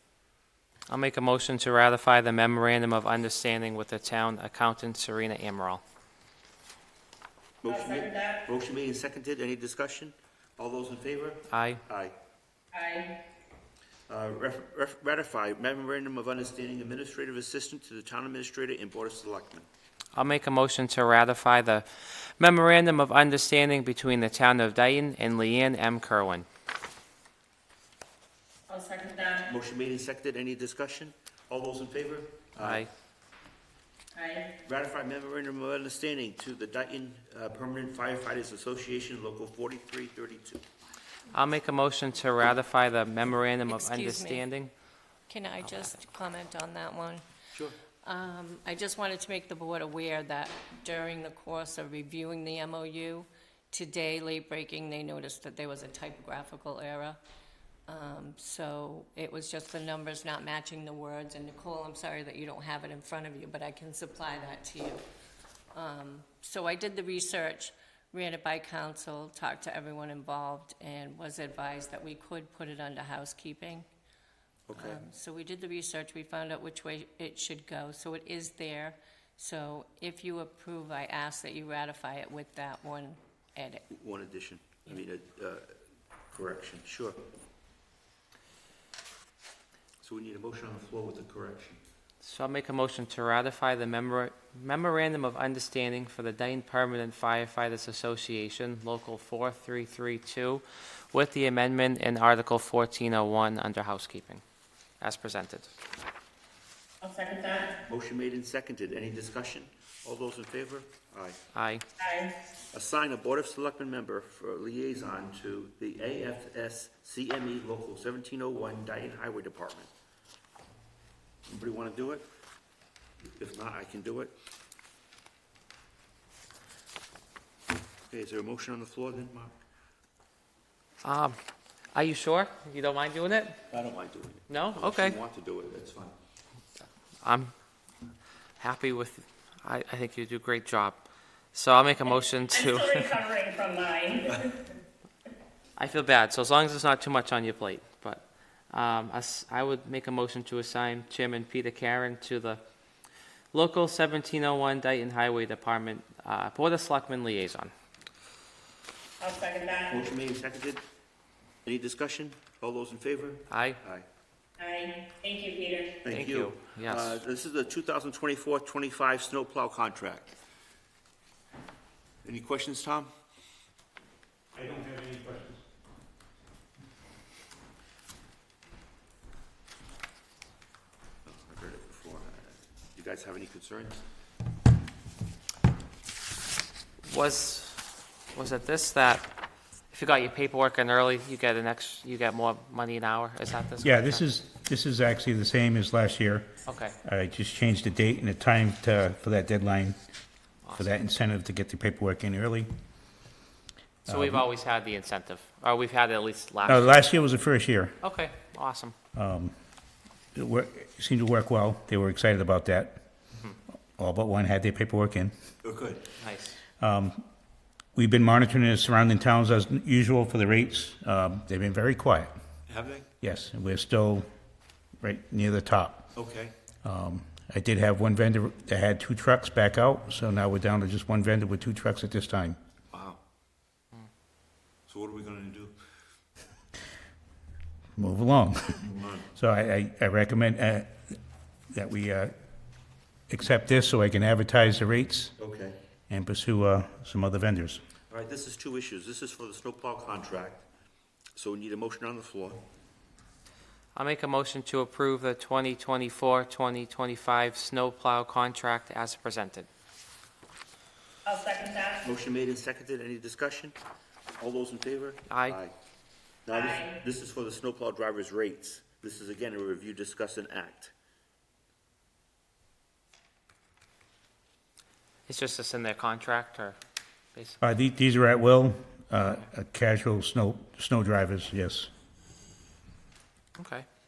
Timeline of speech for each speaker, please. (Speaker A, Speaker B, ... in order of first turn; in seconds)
Speaker A: 0.9-5.8, 11.5-11.8, 20.1-26.5, 32.6-32.9, 41.3-44.7, 92.2-104.4, 105.0-105.7, 111.5-111.8, 131.0-131.4, 131.9-133.6, 134.5-135.2, 137.2-137.5, 138.6-143.2, 145.8-152.6, 153.5-157.7, 163.5-163.8, 166.1-167.2, 187.1-189.3, 189.9-194.2, 196.7-197.0, 200.7-200.9, 204.1-207.0, 208.0-208.9, 216.2-216.6, 253.9-259.7, 265.3-265.6, 275.3-276.8, 277.4-277.6, 283.6-283.9
Speaker B: 7.6-12.2, 14.1-19.7, 29.5-32.9, 34.6-40.6, 74.7-75.0, 83.9-85.8, 86.3-87.2, 90.0-91.8, 107.8-111.4, 112.7-119.9, 121.5-122.3, 123.4-124.3, 128.1-129.6, 133.7-136.1, 159.9-160.8, 161.7-164.1, 166.0-170.3, 172.2-173.1, 181.3-184.0, 215.6-216.1, 222.7-223.1, 226.2-226.6, 232.9-233.2, 234.9-235.7, 238.9-239.3, 245.4-245.8, 248.1-250.6, 251.4-252.7, 262.0-263.8, 264.4-265.7, 266.5-270.9
Speaker C: 7.7-8.4, 12.7-13.1, 28.7-29.4, 34.1-34.5, 107.0-107.7, 112.0-112.3, 142.5-144.5, 159.2-160.1, 164.6-166.0, 261.3-262.1, 266.5-267.0
Speaker D: 43.7-44.4, 45.3-47.3, 48.0-57.2, 57.9-65.0, 65.7-73.9, 74.8-83.9
Speaker E: 174.5-175.6, 193.8-196.5, 197.0-200.0, 200.8-202.7, 204.1-204.4, 206.7-208.0, 209.2-209.5, 210.3-213.1, 214.0-215.3, 216.8-217.2, 217.9-222.3, 223.2-224.3, 225.0-226.1, 226.8-232.6, 238.0-241.2, 241.7-242.3, 243.3-245.3, 246.1-247.8, 277.6-281.9